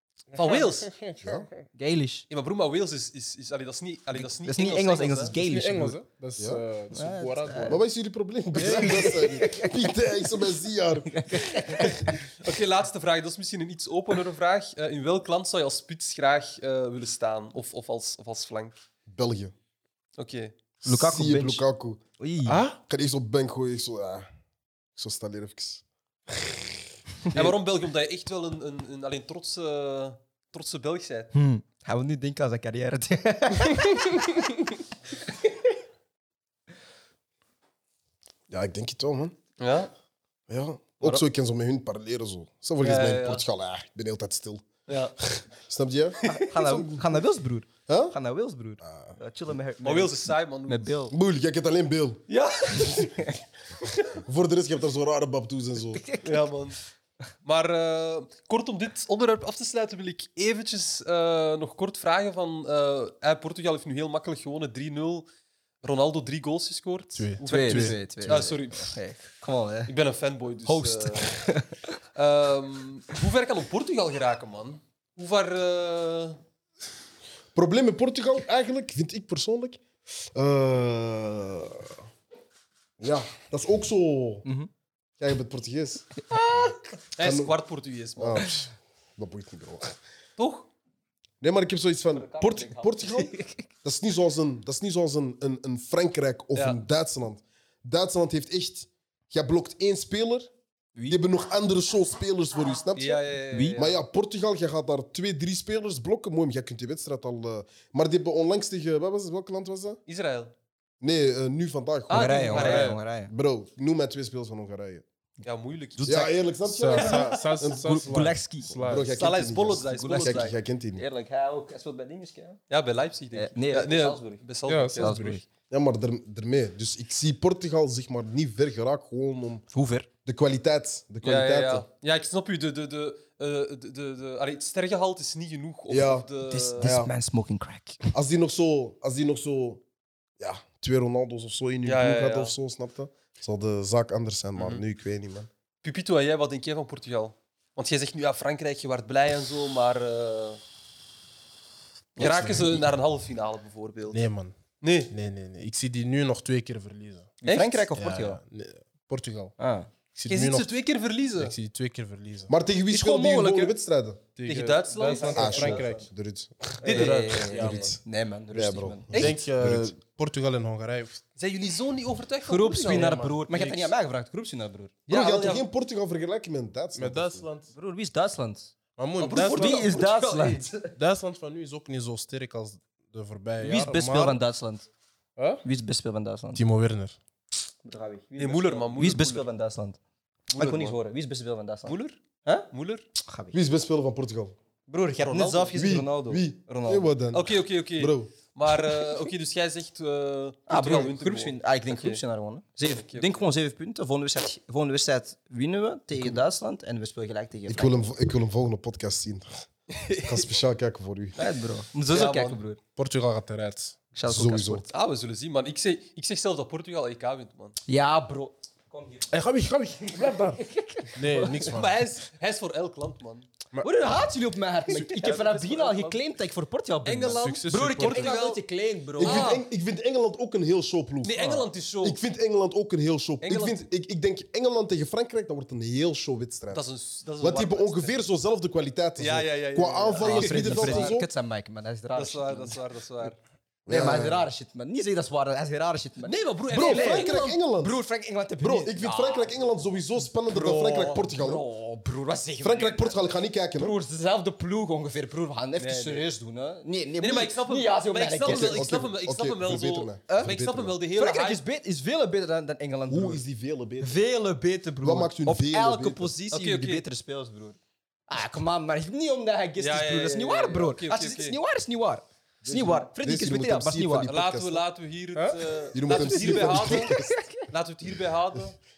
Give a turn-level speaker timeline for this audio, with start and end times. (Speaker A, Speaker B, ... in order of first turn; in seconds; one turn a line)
Speaker A: 0.3-1.4
Speaker B: 0.3-0.9
Speaker C: 1.2-1.5
Speaker D: 1.7-2.3
Speaker B: 2.3-5.3
Speaker D: 4.1-6.0
Speaker A: 5.3-7.8
Speaker C: 6.4-6.6
Speaker D: 6.9-7.8
Speaker C: 7.7-11.9
Speaker A: 8.6-9.3
Speaker D: 8.6-9.9
Speaker D: 11.1-12.0
Speaker B: 11.7-18.7
Speaker C: 19.1-19.5
Speaker B: 20.2-20.5
Speaker C: 20.8-22.0
Speaker D: 20.8-21.6
Speaker D: 22.2-22.6
Speaker A: 22.5-22.8
Speaker C: 22.7-24.3
Speaker C: 24.9-26.6
Speaker B: 27.3-31.3
Speaker D: 31.3-34.5
Speaker C: 38.5-39.4
Speaker B: 39.6-39.9
Speaker C: 40.5-44.7
Speaker B: 42.8-43.4
Speaker B: 44.9-45.1
Speaker C: 45.2-47.0
Speaker B: 46.2-46.9
Speaker D: 46.2-51.1
Speaker C: 47.9-48.1
Speaker C: 48.8-49.2
Speaker B: 49.8-51.0
Speaker C: 51.1-52.2
Speaker B: 52.3-53.3
Speaker C: 54.2-56.1
Speaker D: 56.0-56.4
Speaker B: 56.2-56.8
Speaker B: 57.4-65.2
Speaker B: 65.8-69.0
Speaker A: 67.1-68.4
Speaker D: 67.4-69.9
Speaker B: 69.9-71.5
Speaker D: 70.7-72.0
Speaker B: 72.1-76.4
Speaker C: 77.5-79.8
Speaker C: 80.3-81.9
Speaker C: 83.0-84.5
Speaker C: 85.2-86.1
Speaker D: 86.3-86.9
Speaker B: 87.2-88.5
Speaker C: 87.2-87.5
Speaker C: 88.2-90.0
Speaker B: 90.4-90.7
Speaker C: 91.4-100.5
Speaker D: 92.1-93.6
Speaker D: 100.9-101.2
Speaker C: 101.1-103.2
Speaker B: 103.0-104.0
Speaker D: 103.5-103.8
Speaker C: 103.8-110.0
Speaker B: 110.1-110.5
Speaker C: 111.0-115.0
Speaker B: 112.1-113.0
Speaker D: 112.1-113.3
Speaker A: 112.5-113.0
Speaker B: 115.4-116.3
Speaker D: 116.0-116.3
Speaker C: 116.0-118.0
Speaker A: 116.6-119.1
Speaker B: 117.0-117.4
Speaker D: 117.7-119.0
Speaker C: 118.7-121.0
Speaker B: 119.1-120.5
Speaker D: 119.8-122.6
Speaker B: 122.7-125.4
Speaker D: 123.3-125.4
Speaker A: 124.7-125.4
Speaker C: 125.7-129.6
Speaker D: 129.7-130.1
Speaker C: 130.2-131.8
Speaker B: 131.2-136.9
Speaker C: 135.9-136.3
Speaker D: 136.5-138.1
Speaker C: 136.8-137.1
Speaker C: 138.1-139.8
Speaker C: 140.4-145.5
Speaker B: 141.8-142.6
Speaker B: 144.6-144.8
Speaker B: 145.8-150.6
Speaker B: 152.2-154.3
Speaker A: 152.2-152.9
Speaker A: 154.1-154.6
Speaker B: 154.8-155.1
Speaker A: 155.1-157.3
Speaker D: 157.4-158.4
Speaker B: 157.4-157.8
Speaker A: 157.9-159.5
Speaker D: 159.6-159.9
Speaker A: 160.1-160.7
Speaker B: 160.3-161.5
Speaker A: 161.4-162.5
Speaker C: 162.5-164.2
Speaker D: 162.9-163.7
Speaker A: 164.4-166.1
Speaker B: 164.4-165.8
Speaker D: 165.0-166.1
Speaker C: 165.3-166.8
Speaker A: 166.8-167.9
Speaker D: 166.8-169.3
Speaker B: 166.8-167.4
Speaker C: 167.5-168.0
Speaker C: 168.5-169.9
Speaker A: 169.1-171.2
Speaker B: 171.3-173.7
Speaker D: 172.4-174.9
Speaker A: 172.8-173.8
Speaker C: 175.1-177.5
Speaker B: 175.1-175.7
Speaker A: 176.9-177.7
Speaker D: 177.7-178.7
Speaker A: 179.0-179.9
Speaker B: 179.2-180.7
Speaker D: 179.4-180.9
Speaker A: 180.9-184.4
Speaker D: 183.6-184.9
Speaker A: 185.4-185.6
Speaker D: 185.6-186.6
Speaker A: 186.5-187.2
Speaker D: 187.8-190.0
Speaker B: 188.4-189.4
Speaker B: 190.5-191.0
Speaker D: 190.6-193.6
Speaker B: 191.8-193.0
Speaker C: 193.5-194.5
Speaker D: 194.9-197.1
Speaker B: 195.2-195.8
Speaker C: 195.8-198.3
Speaker B: 197.3-202.2
Speaker D: 200.7-208.0
Speaker B: 203.0-203.4
Speaker C: 207.7-211.4
Speaker B: 209.9-210.5
Speaker D: 211.3-212.8
Speaker B: 212.1-212.6
Speaker A: 212.9-214.0
Speaker D: 214.1-214.8
Speaker C: 214.2-214.8
Speaker B: 214.9-217.8
Speaker D: 217.9-219.3
Speaker A: 219.3-221.9
Speaker D: 220.1-221.8
Speaker B: 221.6-223.5
Speaker D: 223.8-229.6
Speaker A: 224.9-225.3
Speaker B: 225.0-226.2
Speaker B: 227.0-228.6
Speaker A: 227.2-228.4
Speaker C: 229.2-236.8
Speaker B: 229.2-229.6
Speaker B: 231.2-232.2
Speaker B: 233.4-233.9
Speaker B: 236.7-238.2
Speaker C: 237.4-241.3
Speaker B: 239.2-241.2
Speaker D: 240.2-242.8
Speaker B: 242.1-243.4
Speaker C: 243.8-244.5
Speaker D: 243.9-249.6
Speaker B: 246.2-247.6
Speaker C: 246.7-248.0
Speaker C: 248.6-251.6
Speaker B: 250.5-251.2
Speaker D: 250.6-253.2
Speaker C: 252.6-253.9
Speaker D: 253.7-258.9
Speaker B: 255.8-256.2
Speaker B: 257.2-261.6
Speaker C: 258.4-261.0
Speaker D: 260.3-260.6
Speaker D: 261.1-263.4
Speaker C: 263.1-264.2
Speaker D: 264.0-274.3
Speaker C: 265.0-266.3
Speaker B: 266.5-267.0
Speaker B: 269.8-271.6
Speaker C: 272.6-274.8
Speaker B: 274.2-277.1
Speaker A: 275.4-275.7
Speaker C: 275.9-277.3
Speaker D: 276.4-277.6
Speaker B: 277.7-278.8